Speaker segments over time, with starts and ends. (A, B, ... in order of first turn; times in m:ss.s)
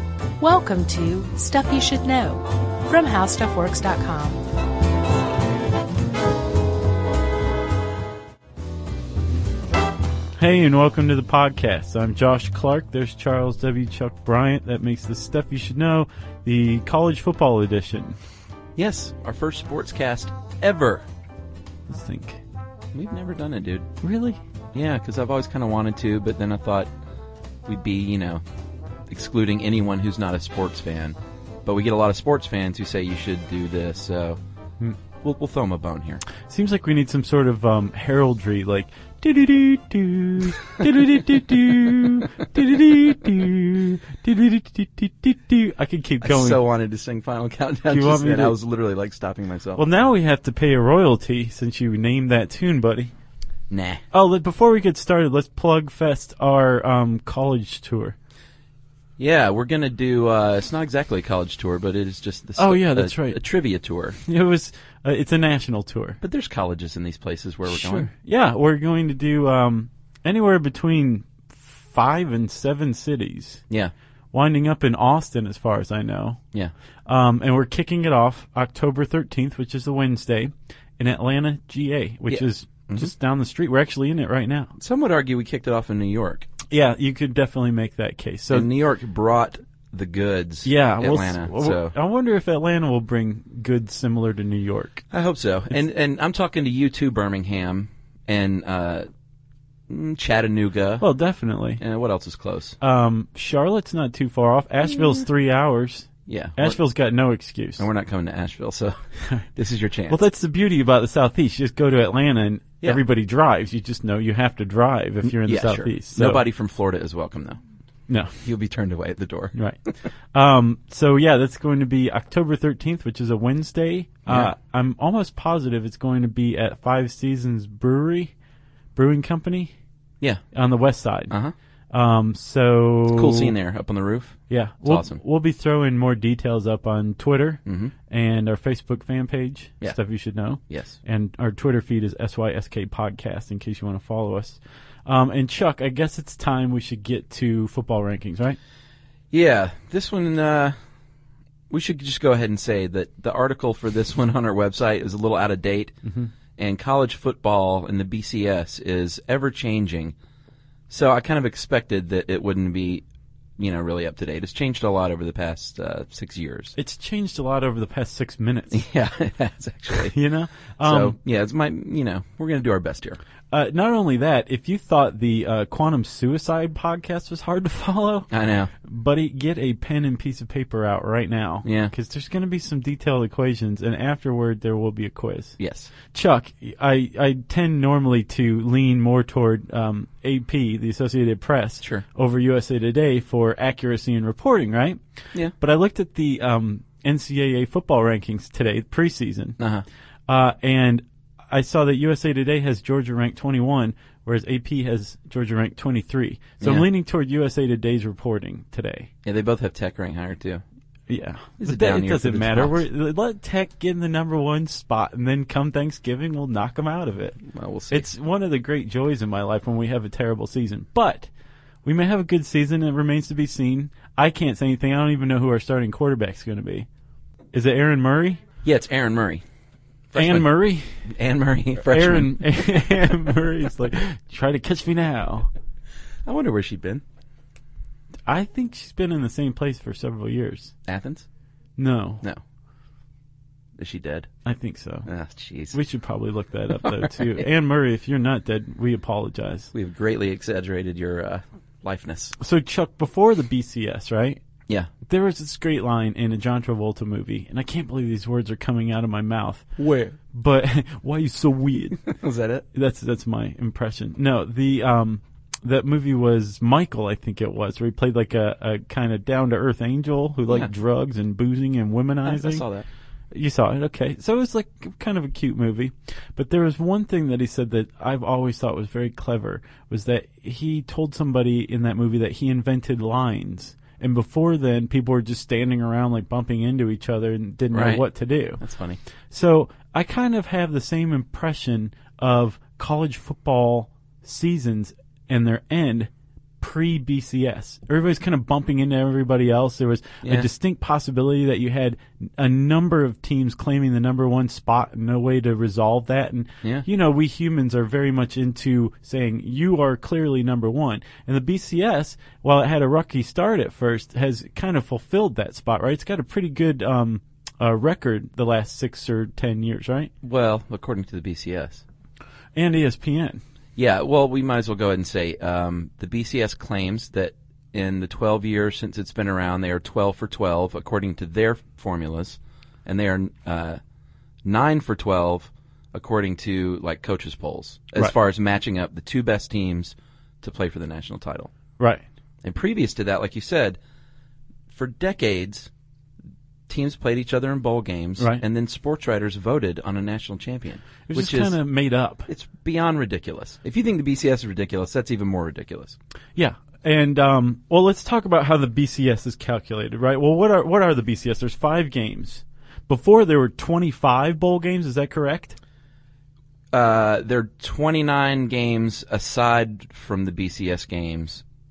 0:00.4-0:04.4 A
0:10.4-0:18.2 B
0:18.8-0:21.0 C
0:21.9-0:22.4 B
0:22.9-0:23.9 C
0:24.0-0:24.4 B
0:24.7-0:26.9 C
0:27.7-0:28.4 C
0:29.1-0:34.4 C
0:35.2-0:36.2 C
0:36.4-0:46.6 B
0:46.2-0:49.9 C
0:47.9-0:48.6 B
0:49.8-0:53.1 B
0:53.7-0:54.0 C
0:54.1-0:58.2 B
0:59.2-1:04.2 C
1:02.6-1:03.4 B
1:04.2-1:06.2 B
1:06.2-1:08.1 C
1:07.7-1:13.6 B
1:14.3-1:16.4 B
1:17.1-1:24.7 B
1:22.3-1:23.1 C
1:24.8-1:26.5 C
1:26.7-1:28.7 B
1:28.5-1:31.9 C
1:30.6-1:35.1 B
1:35.1-1:39.1 C
1:39.9-1:41.0 C
1:41.0-1:41.8 B
1:41.8-1:42.8 C
1:42.8-1:47.9 B
1:46.3-1:46.8 C
1:47.8-1:49.0 C
1:49.6-1:50.2 C
1:50.1-1:56.4 B
1:55.3-1:57.6 C
1:58.1-1:58.3 B
1:58.4-1:59.5 C
1:59.5-1:59.8 B
2:00.3-2:08.3 B
2:04.3-2:04.5 C
2:08.9-2:09.7 B
2:10.5-2:11.3 B
2:11.9-2:13.5 B
2:13.1-2:15.2 C
2:14.5-2:28.6 B
2:17.6-2:17.9 C
2:20.7-2:21.0 C
2:29.3-2:30.7 C
2:31.7-2:36.0 C
2:36.0-2:36.3 B
2:36.6-2:40.1 C
2:40.9-2:43.0 C
2:43.6-2:46.7 C
2:46.8-2:48.8 B
2:48.7-2:50.1 C
2:50.0-2:51.2 B
2:50.8-2:53.2 C
2:53.5-2:58.3 B
2:58.3-2:58.7 C
2:58.8-3:05.6 B
3:01.6-3:01.9 C
3:05.6-3:05.9 C
3:06.1-3:15.0 B
3:15.6-3:19.6 B
3:19.6-3:19.8 C
3:20.3-3:29.1 B
3:26.6-3:26.9 C
3:29.2-3:30.6 C
3:31.1-3:37.4 B
3:31.6-3:32.8 C
3:37.4-3:38.1 C
3:37.9-3:41.3 B
3:41.8-3:46.9 B
3:47.5-3:48.4 B
3:48.6-3:49.4 C
3:50.1-3:50.5 C
3:50.1-3:51.0 B
3:51.0-3:52.4 C
3:51.8-3:55.5 B
3:56.2-3:57.0 C
3:58.3-4:00.7 B
4:00.8-4:01.2 C
4:01.8-4:02.2 B
4:03.8-4:04.3 C
4:04.4-4:05.1 B
4:05.0-4:05.8 C
4:05.7-4:09.7 B
4:09.7-4:12.4 C
4:12.4-4:14.4 B
4:15.0-4:19.7 B
4:19.8-4:20.2 C
4:20.3-4:22.0 B
4:22.0-4:22.6 C
4:22.7-4:32.6 B
4:32.2-4:32.8 C
4:33.3-4:48.6 B
4:47.7-4:48.0 C
4:48.6-4:49.0 C
4:49.3-5:20.1 B
5:20.2-5:21.8 C
5:22.5-5:23.4 B
5:23.8-5:33.8 C
5:34.4-5:41.5 C
5:41.8-5:42.0 B
5:42.4-5:43.8 C
5:44.7-5:45.7 C
5:46.7-5:51.6 C
5:51.1-5:52.3 B
5:52.3-5:56.0 C
5:56.4-6:05.6 B
6:06.7-6:11.4 C